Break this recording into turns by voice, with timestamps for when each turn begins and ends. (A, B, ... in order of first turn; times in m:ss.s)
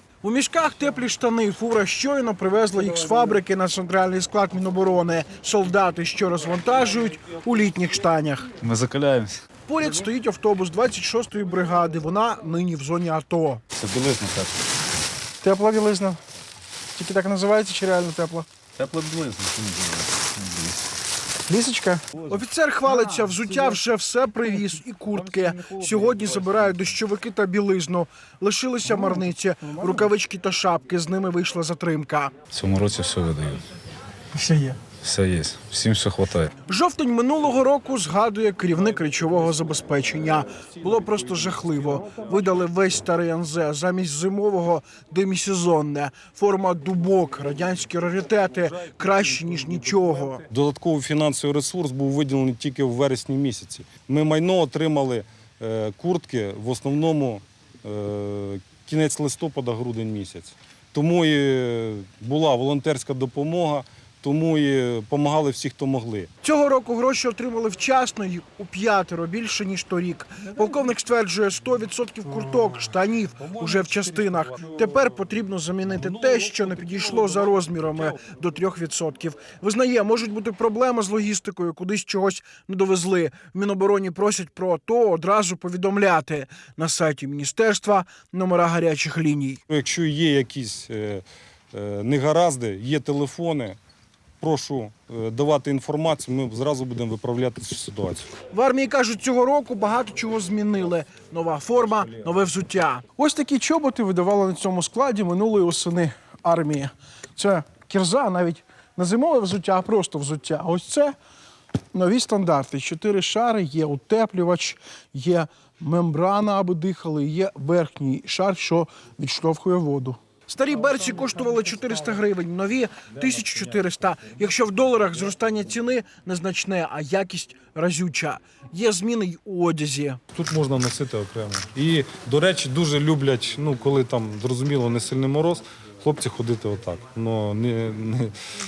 0:00.2-0:08.5 A
0:08.6-0:09.4 B
0:09.7-0:13.6 A
0:13.7-0:14.6 B
0:15.4-0:16.2 A
0:17.0-0:18.5 A
0:18.8-0:20.9 B
0:21.5-0:32.3 A
0:25.1-0:26.8 B
0:32.5-0:33.6 B
0:34.4-0:34.8 A
0:34.9-0:36.5 B
0:36.7-0:50.4 A
0:50.5-1:06.3 C
1:06.4-1:29.6 A
1:13.4-1:15.0 C
1:16.0-1:16.7 C
1:29.7-1:33.8 C
1:34.4-1:38.3 C
1:38.5-1:51.1 A
1:41.9-1:42.3 C
1:51.9-2:10.2 A
2:10.3-2:18.3 C